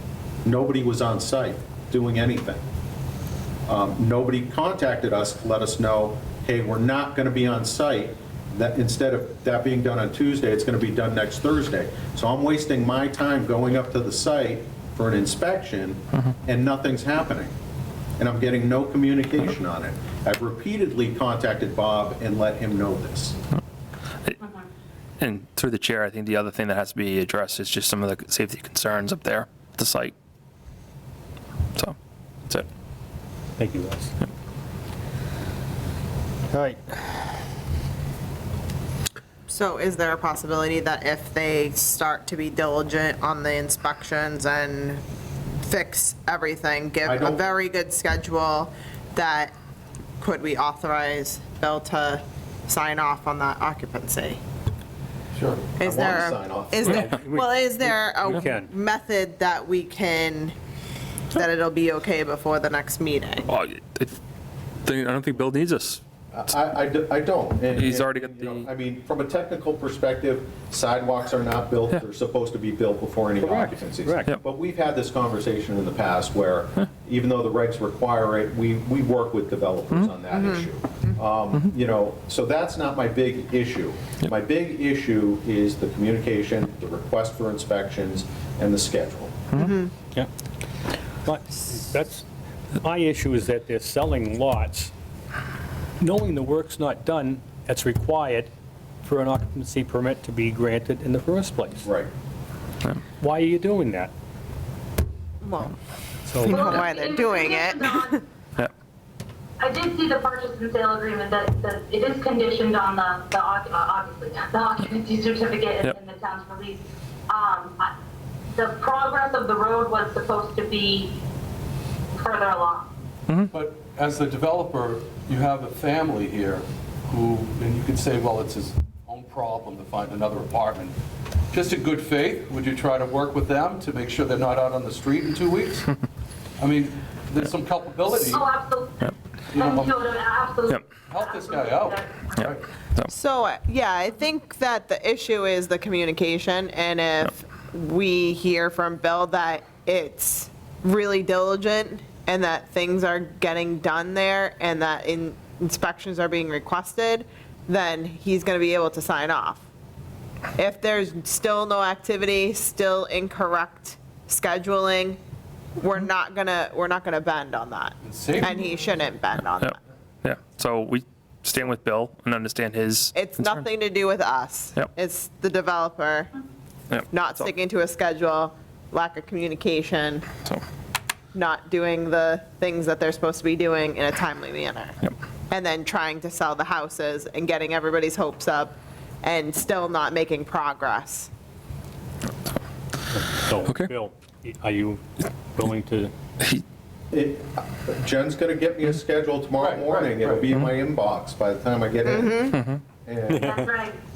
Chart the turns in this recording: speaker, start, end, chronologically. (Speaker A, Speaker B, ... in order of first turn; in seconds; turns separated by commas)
Speaker A: 0.4-2.6, Speaker A: 3.7-17.5, Speaker A: 18.2-23.4, Speaker B: 25.2-30.1, Speaker C: 33.6-34.1, Speaker C: 36.5-37.1, Speaker D: 39.5-45.0, Speaker D: 45.6-49.5, Speaker A: 47.0-47.5, Speaker D: 50.2-54.4, Speaker E: 55.3-55.7, Speaker D: 55.8-60.5, Speaker A: 55.8-57.0, Speaker C: 56.8-58.7, Speaker D: 61.3-63.5, Speaker B: 63.5-64.2, Speaker B: 64.8-66.0, Speaker A: 66.3-89.5, Speaker B: 67.7-68.7, Speaker C: 73.4-74.3, Speaker D: 80.3-80.6, Speaker D: 89.5-89.9, Speaker C: 91.2-92.3, Speaker C: 92.8-94.9, Speaker C: 96.0-98.5, Speaker C: 99.0-101.9, Speaker A: 101.8-102.1, Speaker C: 103.2-104.1, Speaker D: 105.4-105.8, Speaker C: 106.2-106.8, Speaker D: 106.4-108.2, Speaker F: 106.5-108.2, Speaker F: 109.6-117.9, Speaker F: 118.5-121.1, Speaker F: 122.1-122.9, Speaker E: 123.5-130.9, Speaker E: 131.5-135.9, Speaker E: 136.6-138.5, Speaker F: 138.2-142.5, Speaker E: 139.5-140.1, Speaker E: 141.0-142.7, Speaker B: 142.4-143.1, Speaker D: 143.1-159.6, Speaker D: 160.5-165.2, Speaker D: 165.8-169.8, Speaker E: 168.0-168.7, Speaker B: 169.6-173.6, Speaker D: 173.1-176.3, Speaker B: 176.9-177.5, Speaker D: 177.1-180.3, Speaker D: 181.3-185.0, Speaker D: 185.5-191.3, Speaker C: 193.1-196.1, Speaker B: 193.7-193.9, Speaker A: 197.1-203.7, Speaker E: 199.6-200.5, Speaker D: 202.0-202.6, Speaker B: 202.5-202.8, Speaker C: 203.3-203.7, Speaker F: 203.3-204.0